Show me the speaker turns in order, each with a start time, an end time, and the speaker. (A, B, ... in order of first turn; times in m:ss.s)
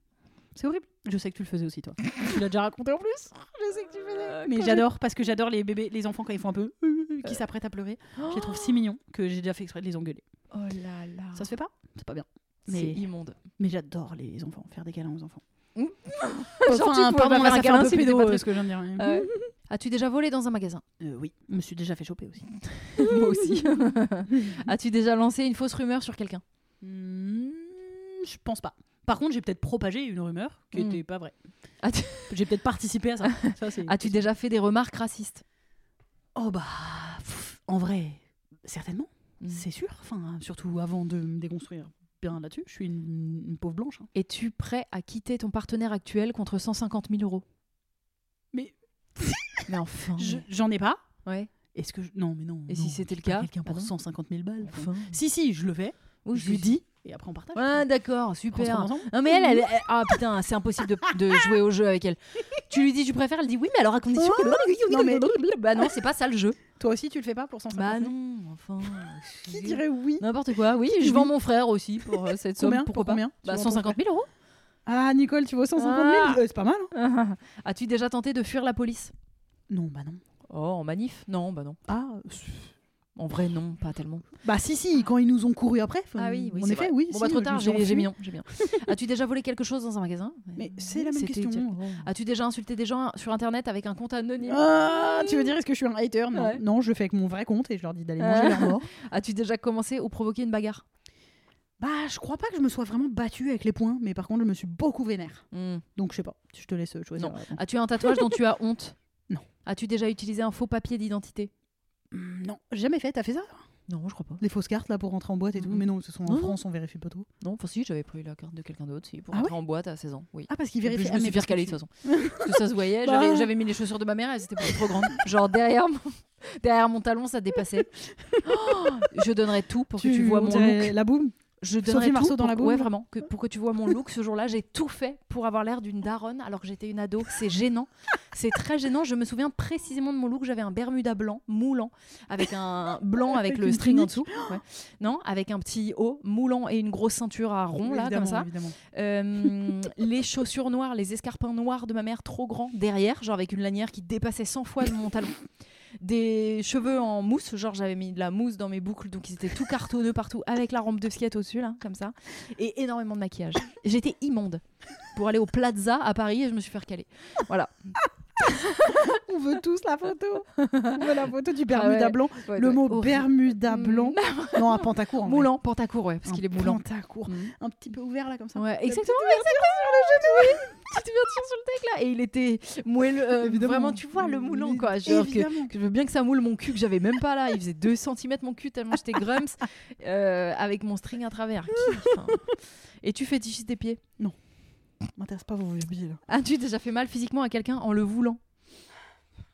0:00.5-0:03.5 A
0:03.5-0:04.8 B
0:04.3-0:10.2 A
0:08.2-0:08.8 B
0:10.5-0:11.5 B
0:11.3-0:13.0 A
0:12.6-0:13.4 B
0:13.6-0:15.4 A
0:15.7-0:20.8 B
0:16.6-0:19.5 A
0:21.0-0:24.6 A
0:22.7-0:26.4 B
0:26.8-0:31.4 A
0:30.7-0:31.0 B
0:31.8-0:32.4 B
0:32.3-0:34.2 A
0:33.2-0:35.4 B
0:36.4-0:44.1 A
0:44.1-0:47.4 B
0:48.5-0:51.0 A
0:49.7-0:50.4 B
0:51.2-0:51.5 B
0:51.7-0:57.8 A
0:52.7-0:53.9 B
0:54.6-0:55.2 B
0:56.2-0:56.8 B
0:57.5-1:06.6 B
0:58.5-1:00.2 A
1:01.0-1:01.4 A
1:04.1-1:05.9 A
1:06.8-1:08.1 A
1:07.7-1:14.3 B
1:09.0-1:10.3 A
1:10.8-1:11.3 A
1:12.0-1:14.0 A
1:14.8-1:16.9 A
1:15.8-1:16.4 B
1:16.9-1:19.1 B
1:19.7-1:20.2 A
1:20.5-1:21.8 B
1:21.9-1:22.7 A
1:23.2-1:24.2 B
1:24.4-1:28.8 A
1:26.2-1:35.5 B
1:30.6-1:32.0 A
1:34.4-1:38.9 A
1:36.3-1:36.6 B
1:38.2-1:40.8 B
1:41.8-1:48.3 A
1:45.5-1:45.8 B
1:47.2-1:49.0 B
1:49.6-1:51.5 B
1:52.1-1:53.6 A
1:53.9-1:54.4 B
1:54.4-1:57.3 A
1:55.6-1:56.6 B
1:57.4-2:07.9 B
2:00.5-2:03.5 A
2:04.6-2:05.2 A
2:08.2-2:08.9 A
2:08.4-2:10.9 B
2:10.0-2:12.9 A
2:11.6-2:35.4 B
2:23.3-2:24.6 A
2:27.8-2:28.8 A
2:36.0-2:57.4 B
2:48.8-2:55.5 A
2:56.2-3:00.8 A
2:58.6-3:14.0 B
3:03.4-3:05.7 A
3:11.8-3:12.1 A
3:15.1-3:16.2 A
3:16.3-3:18.4 B